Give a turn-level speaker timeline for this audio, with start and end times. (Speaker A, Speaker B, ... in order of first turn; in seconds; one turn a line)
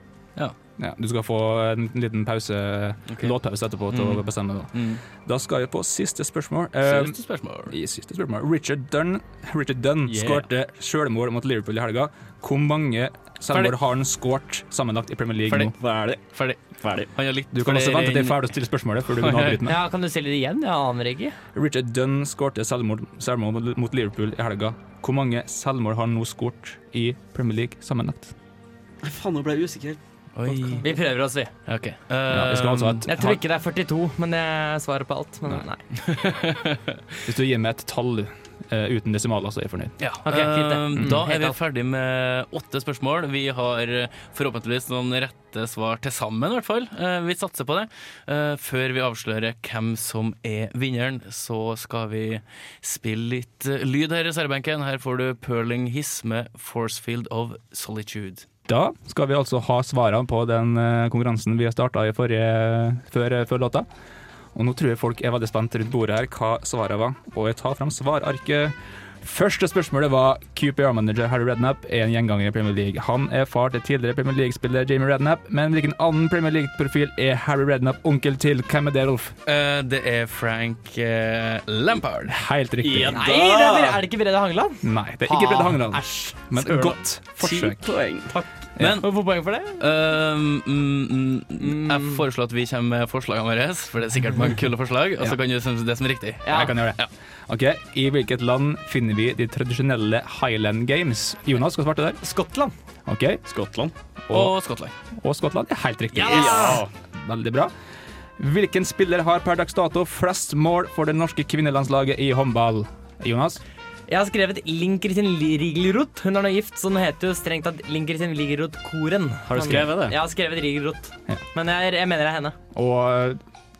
Speaker A: 0.8-15.8
Speaker B: 3.1-3.4
Speaker B: 3.9-5.0
Speaker B: 6.8-7.8
Speaker C: 10.1-10.5
Speaker B: 15.5-15.7
Speaker C: 15.8-16.2
Speaker B: 16.3-16.6
Speaker C: 16.8-17.1
Speaker B: 17.1-18.5
Speaker A: 17.5-19.8
Speaker B: 19.2-19.6
Speaker D: 19.7-21.4
Speaker A: 21.5-28.4
Speaker C: 29.0-30.8
Speaker B: 30.4-30.9
Speaker D: 30.8-31.5
Speaker B: 31.7-33.1
Speaker A: 32.3-33.4
Speaker D: 33.1-35.8
Speaker B: 36.0-37.0
Speaker A: 37.2-40.0
Speaker B: 40.0-58.5
Speaker D: 40.2-41.6
Speaker A: 58.7-63.9
Speaker A: 64.5-79.3
Speaker B: 79.5-82.4
Speaker A: 82.3-83.2
Speaker C: 82.8-84.0
Speaker D: 83.1-87.0
Speaker A: 84.8-88.0
Speaker C: 87.4-88.3
Speaker D: 88.3-89.8
Speaker B: 88.8-89.1
Speaker B: 89.8-97.1
Speaker D: 91.6-92.2
Speaker D: 96.5-96.7
Speaker A: 96.5-102.2
Speaker D: 102.2-102.7
Speaker A: 103.1-103.4
Speaker C: 103.5-103.9
Speaker A: 104.3-104.5
Speaker B: 104.3-104.9
Speaker A: 105.2-107.7
Speaker D: 106.1-106.8
Speaker C: 106.2-106.9
Speaker A: 108.4-113.6
Speaker D: 114.1-122.5
Speaker C: 119.5-120.2
Speaker A: 122.7-123.4